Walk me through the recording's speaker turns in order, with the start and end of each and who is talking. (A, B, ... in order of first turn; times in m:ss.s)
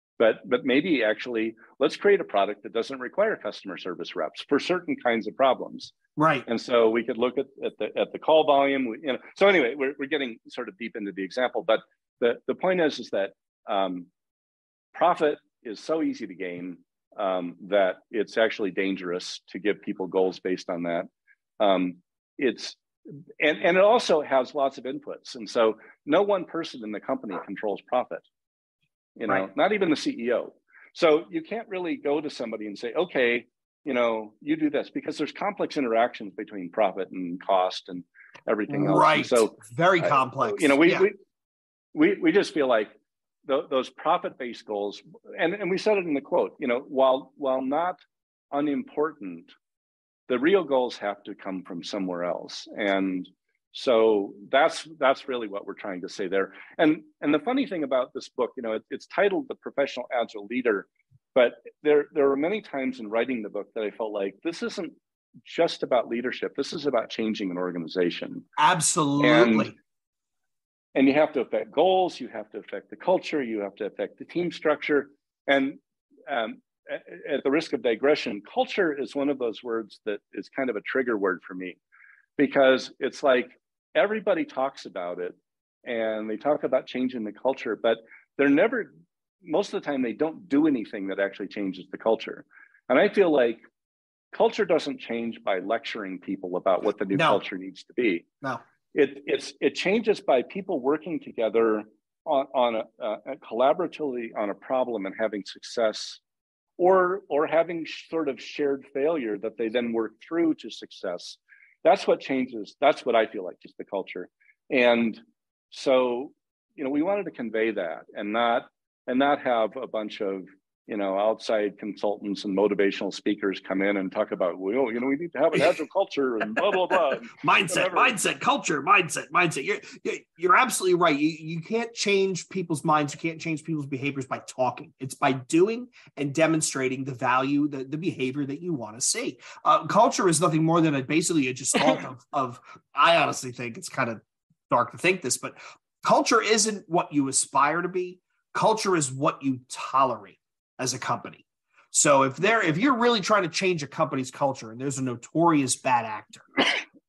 0:00.2-0:05.9 A
0:06.2-0:06.4 B
0:06.4-0:14.1 A
0:14.9-0:21.1 A
0:21.6-0:22.8 A
0:23.4-0:28.2 A
0:29.2-0:41.2 A
0:38.7-0:41.1 B
0:41.9-0:42.9 A
0:43.4-0:48.0 A
0:48.5-0:49.5 A
0:50.3-1:08.4 A
1:08.6-1:09.7 B
1:09.2-1:09.7 A
1:10.9-1:21.8 A
1:22.4-1:28.9 A
1:29.4-1:33.6 A
1:34.3-1:38.2 A
1:37.1-1:37.4 B
1:38.9-1:46.2 A
1:46.8-2:08.2 A
2:07.4-2:36.7 B